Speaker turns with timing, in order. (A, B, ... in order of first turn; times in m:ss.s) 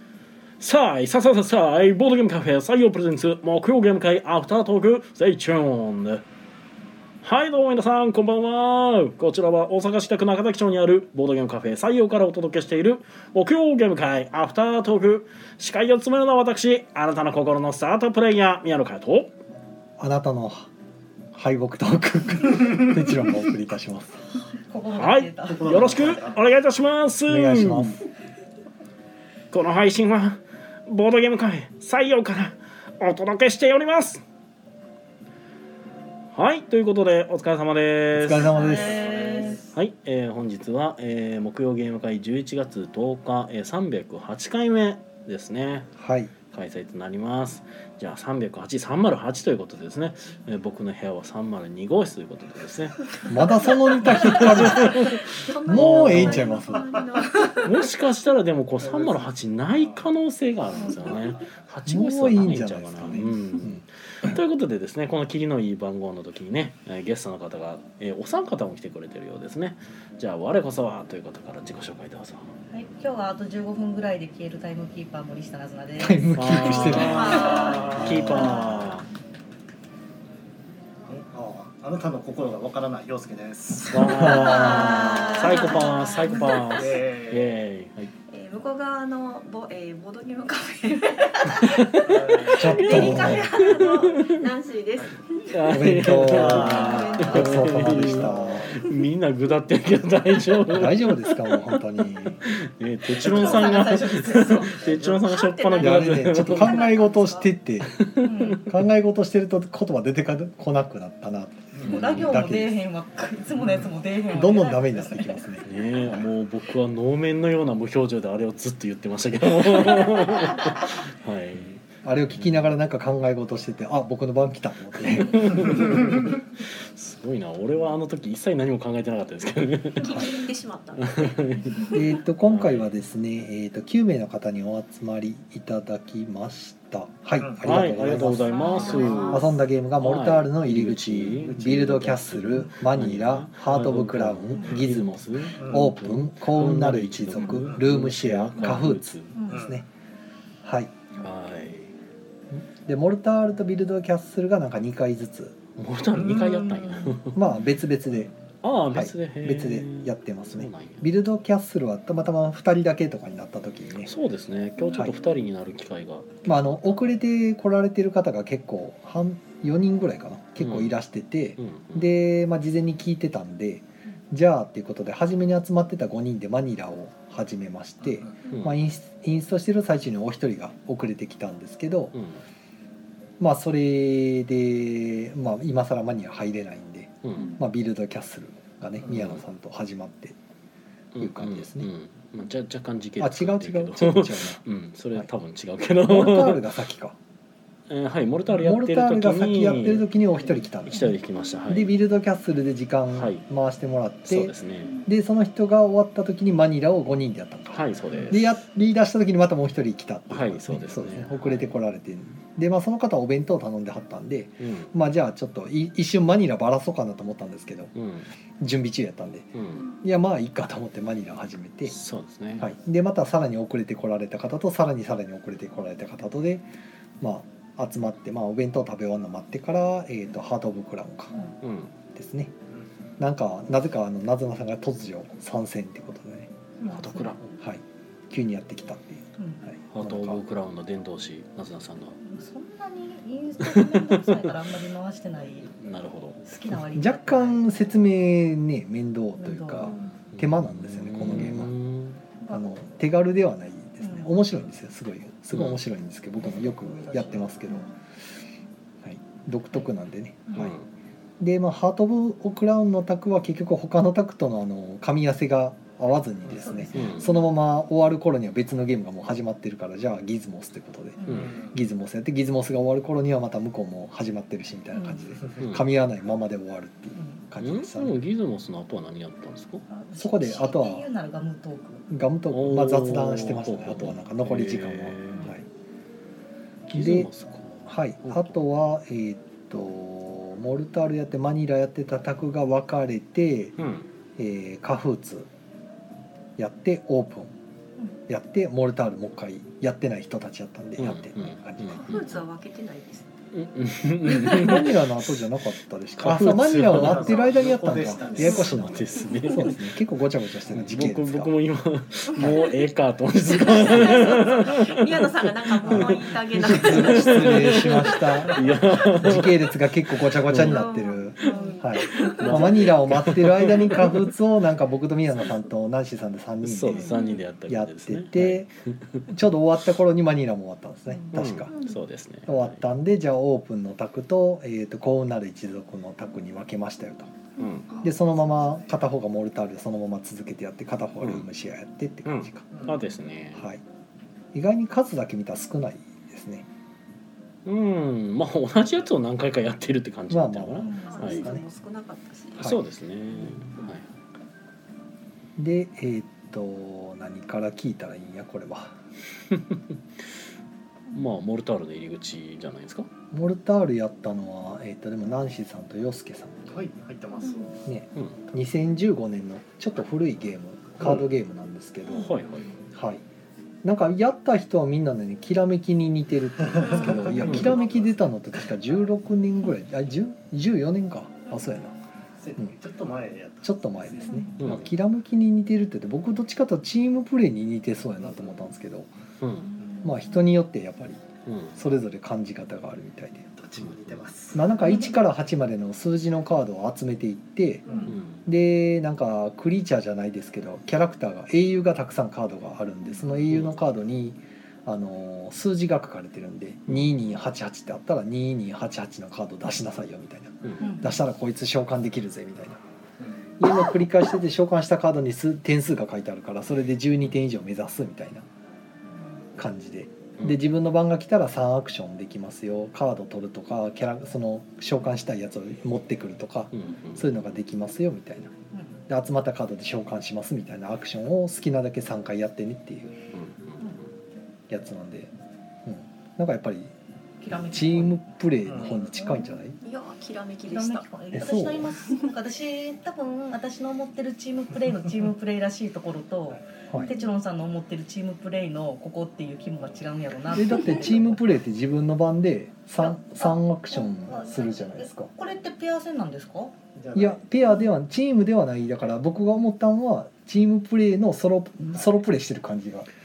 0:00.6-0:06.2 A
0:07.2-0:19.3 A
0:20.0-0:20.7 B
0:21.3-0:24.2 B
0:24.7-0:25.8 C
0:24.9-0:28.0 A
0:25.5-0:26.4 D
0:27.3-0:28.0 B
0:29.5-0:34.2 A
0:36.3-0:38.6 A
0:38.1-0:39.2 B
0:38.5-0:39.6 E
0:38.8-0:39.6 D
0:39.7-0:45.9 A
0:46.0-0:46.3 B
0:46.5-0:53.1 A
0:53.2-0:56.9 B
0:54.0-0:56.6 A
0:54.1-0:57.8 E
0:57.6-1:12.6 A
0:58.8-1:00.0 D
1:00.8-1:01.3 D
1:01.9-1:04.3 B
1:12.7-1:17.8 C
1:16.0-1:18.6 B
1:16.4-1:19.1 A
1:16.9-1:18.0 E
1:16.9-1:18.3 D
1:21.1-1:25.5 D
1:23.9-1:28.1 A
1:24.2-1:25.3 B
1:24.2-1:26.7 E
1:26.6-1:27.6 D
1:28.3-1:38.3 E
1:31.7-1:32.1 A
1:32.0-1:33.0 D
1:32.5-1:33.5 B
1:32.7-1:34.4 A
1:35.5-1:46.9 A
1:35.7-1:38.7 B
1:36.2-1:38.8 D
1:40.7-1:42.4 B
1:43.1-1:44.9 C
1:44.6-1:47.5 E
1:45.8-1:48.0 B
1:47.9-1:48.6 A
1:48.2-1:48.6 C
1:48.6-1:52.8 B
1:51.8-1:52.4 A
1:51.8-1:55.3 C
1:54.3-1:56.3 B
1:55.6-2:01.8 A
2:02.0-2:06.1 B
2:02.3-2:02.6 A
2:05.2-2:10.3 A
2:10.0-2:12.1 E
2:10.0-2:10.3 B
2:11.0-2:12.9 A
2:11.9-2:29.9 B
2:17.4-2:17.8 D
2:17.6-2:29.4 A
2:18.6-2:19.5 E
2:18.6-2:19.3 C
2:25.6-2:25.9 D
2:29.3-2:29.6 C
2:29.5-2:29.8 D
2:30.6-2:30.9 B
2:31.2-2:31.9 A
2:32.5-2:35.6 B
2:35.8-2:37.4 A
2:36.1-2:37.0 D
2:37.3-2:38.3 B
2:38.6-2:41.1 A
2:38.9-2:44.1 B
2:44.0-2:46.5 A
2:46.4-3:02.2 B
2:50.6-2:51.0 A
2:51.6-2:52.1 A
2:58.0-2:58.3 D
2:58.5-2:58.8 A
3:02.1-3:02.4 A
3:03.4-3:10.4 B
3:07.2-3:07.5 A
3:09.0-3:09.3 D
3:09.1-3:09.4 A
3:11.1-3:16.8 A
3:11.2-3:11.9 B
3:13.2-3:14.6 B
3:16.0-3:17.2 B
3:17.9-3:20.1 A
3:18.5-3:21.1 B
3:20.8-3:22.0 A
3:21.7-3:37.9 B
3:23.1-3:23.4 A
3:24.3-3:25.0 A
3:27.7-3:28.5 A
3:30.3-3:31.7 A
3:34.6-3:34.9 A
3:37.9-3:38.3 A
3:38.6-3:42.0 B
3:39.5-3:39.8 A
3:41.9-3:42.7 A
3:42.6-3:46.7 B
3:47.2-3:51.5 B
3:51.6-3:51.9 A
3:52.1-3:52.5 B
3:53.2-3:56.5 B
3:56.8-3:57.4 C
3:56.9-3:57.5 A
3:57.6-4:00.4 B
3:59.9-4:02.2 A
4:02.2-4:05.7 C
4:03.6-4:04.4 A
4:05.8-4:06.4 A
4:06.4-4:07.8 C
4:06.9-4:11.7 B
4:09.4-4:10.1 C
4:10.3-4:12.2 A
4:12.4-4:12.8 C
4:12.5-4:17.9 B
4:14.0-4:14.4 C
4:15.5-4:15.8 A
4:16.4-4:17.9 C
4:19.0-4:20.7 B
4:20.5-4:20.8 A
4:21.4-4:38.2 B
4:26.4-4:26.7 D
4:26.6-4:27.5 C
4:26.9-4:27.2 A
4:31.2-4:31.6 C
4:31.3-4:31.5 A
4:31.3-4:31.7 D
4:34.9-4:35.2 C
4:35.6-4:35.9 A
4:37.6-4:39.8 A
4:39.9-4:42.1 C
4:40.2-4:41.1 B
4:42.1-4:45.6 B
4:42.5-4:45.5 A
4:46.9-4:48.6 A
4:46.9-4:47.3 B
4:47.9-4:53.8 B
4:53.8-4:54.0 A
4:54.4-4:55.5 B
4:56.6-4:57.5 B
4:58.3-5:02.0 B
5:01.0-5:02.4 A
5:01.9-5:03.3 E
5:03.5-5:05.5 A
5:04.2-5:11.5 B
5:06.2-5:09.9 A
5:06.8-5:08.9 D
5:09.2-5:09.5 E
5:10.7-5:20.9 A
5:12.4-5:12.7 E
5:13.5-5:19.2 E
5:15.8-5:27.1 B
5:20.6-5:22.9 E
5:21.4-5:21.8 C
5:22.4-5:24.3 A
5:26.6-5:29.3 A
5:27.0-5:27.4 E
5:27.7-5:28.7 B
5:29.3-5:31.7 B
5:31.3-5:32.8 A
5:31.7-5:32.0 E
5:32.4-5:37.4 B
5:37.6-5:37.9 A
5:37.6-5:38.1 E
5:38.0-5:42.7 B
5:41.2-5:41.5 A
5:42.2-5:43.6 A
5:42.7-5:43.0 D
5:43.5-5:43.8 B
5:44.5-5:46.6 B
5:47.6-5:51.5 A
5:50.3-5:51.6 B
5:50.8-5:51.4 C
5:51.0-5:52.7 E
5:52.6-5:54.0 A
5:55.6-5:58.9 B
5:59.5-5:59.8 A
6:01.1-6:03.1 A
6:03.3-6:06.8 B
6:06.7-6:07.8 D
6:07.8-6:12.4 B
6:12.1-6:12.7 A
6:12.9-6:13.2 B
6:13.8-6:21.9 B
6:16.7-6:18.2 D
6:16.9-6:17.8 A
6:22.4-6:24.4 D
6:23.6-6:29.1 B
6:24.3-6:24.6 C
6:24.6-6:24.9 A
6:28.2-6:28.6 D
6:29.4-6:29.7 A
6:29.6-6:30.2 C
6:30.0-6:33.5 B
6:31.4-6:31.7 A
6:33.6-6:34.7 D
6:33.8-6:34.2 A
6:34.5-6:37.8 B
6:37.9-6:38.1 D
6:38.1-6:38.4 A
6:38.4-6:52.8 B
6:43.4-6:43.8 A
6:50.8-6:51.2 C
6:53.6-6:58.4 B
6:59.6-7:08.5 B
7:06.7-7:07.3 A
7:08.7-7:09.0 C
7:09.1-7:13.2 B
7:13.3-7:14.0 A
7:14.7-7:15.3 B
7:15.8-7:16.9 B
7:17.4-7:18.2 C
7:17.6-7:19.8 B
7:18.6-7:19.1 D
7:19.1-7:19.6 C
7:19.8-7:21.1 E
7:20.7-7:31.1 C
7:21.3-7:21.9 B
7:30.5-7:35.3 B
7:33.0-7:36.7 C
7:37.0-7:37.4 D
7:37.1-7:43.1 B